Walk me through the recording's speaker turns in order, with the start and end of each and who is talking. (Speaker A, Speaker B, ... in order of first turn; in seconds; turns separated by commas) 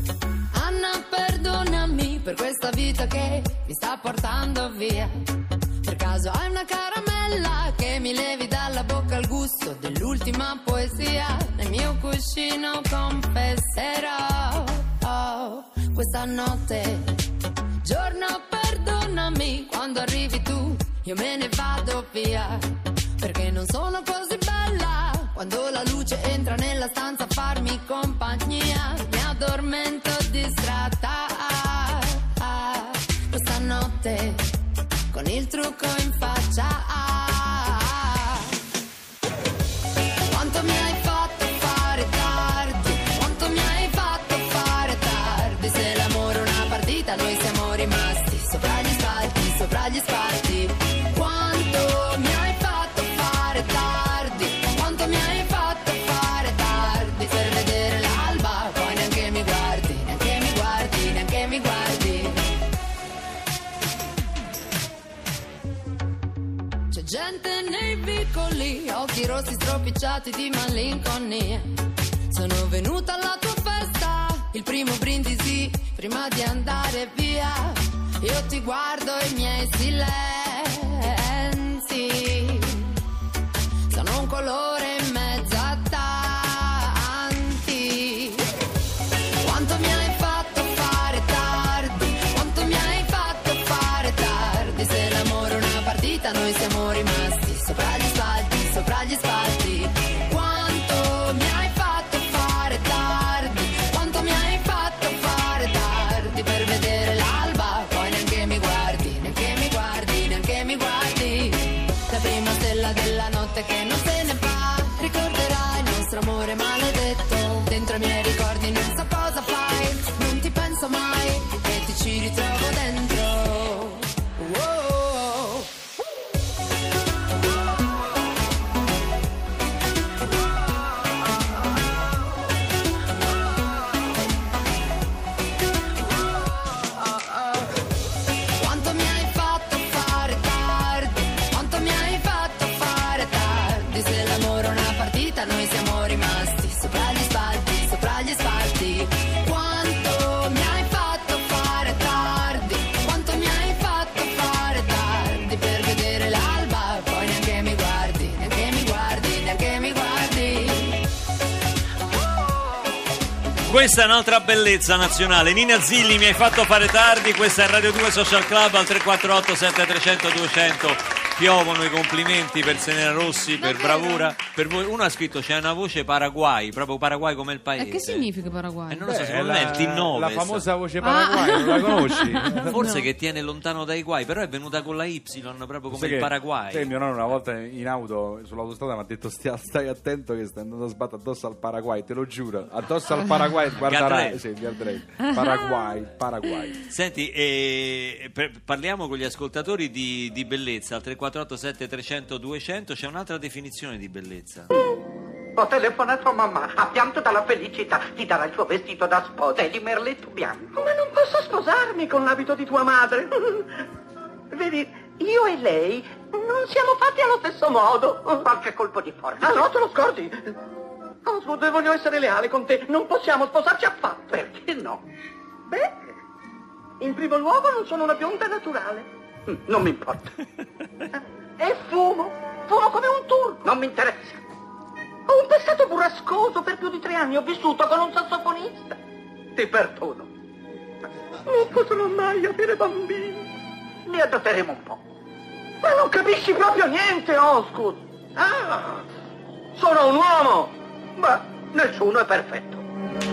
Speaker A: 0.5-5.1, Speaker A: 5.8-17.3, Speaker A: 17.8-22.6, Speaker A: 23.2-34.5, Speaker A: 35.1-38.6, Speaker A: 40.2-62.5, Speaker A: 66.9-71.7, Speaker A: 72.3-83.0, Speaker A: 83.9-88.5, Speaker A: 89.4-125.7, Speaker A: 138.6-161.1, Speaker B: 163.6-178.3, Speaker C: 173.6-174.3, Speaker C: 177.8-179.0, Speaker B: 178.9-180.7, Speaker D: 179.1-182.7, Speaker C: 181.0-183.1, Speaker B: 182.6-186.9, Speaker D: 185.9-196.8, Speaker B: 193.8-194.4, Speaker C: 195.2-195.9, Speaker B: 196.9-204.7, Speaker E: 204.7-205.0, Speaker E: 205.6-213.8, Speaker E: 214.5-220.5, Speaker E: 221.2-225.0, Speaker E: 225.7-225.9, Speaker E: 227.0-230.3, Speaker E: 231.6-234.4, Speaker E: 235.3-239.0, Speaker E: 239.5-240.3, Speaker E: 241.5-243.4, Speaker E: 244.1-245.0, Speaker E: 245.8-249.0, Speaker E: 249.8-252.8